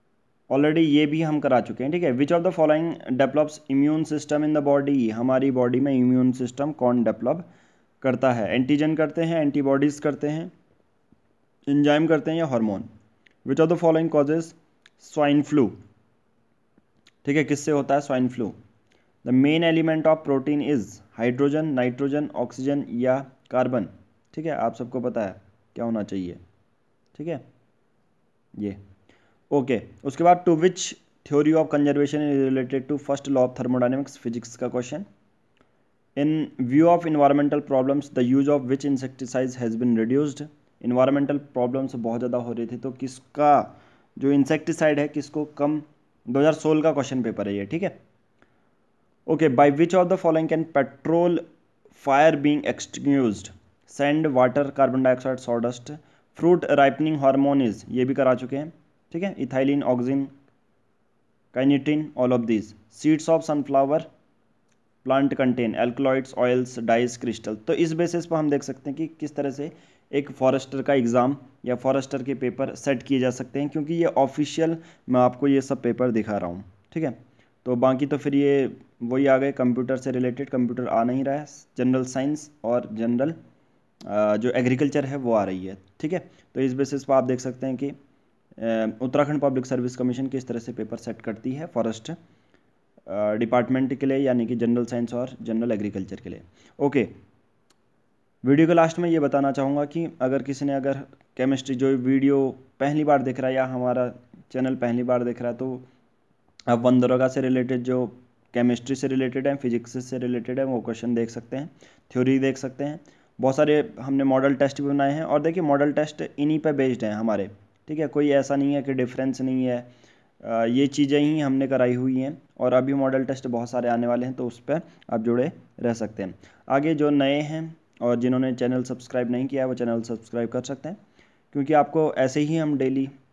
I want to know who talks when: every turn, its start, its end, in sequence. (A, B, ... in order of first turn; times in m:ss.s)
0:00.5-0:07.4 A
0:08.0-0:10.5 A
0:11.7-0:12.9 A
0:13.4-0:15.8 A
0:17.2-0:18.6 A
0:19.2-0:26.4 A
0:27.2-0:27.4 A
0:29.5-0:35.0 A
0:36.2-0:47.9 A
0:49.3-0:51.4 A
0:51.9-1:00.3 A
1:01.5-1:04.1 A
1:05.0-1:23.4 A
1:24.0-1:27.9 A
1:28.6-1:32.2 A
1:33.1-1:37.1 A
1:38.4-1:45.8 A
1:46.7-1:59.9 A
2:00.4-2:11.0 A
2:11.5-2:13.1 A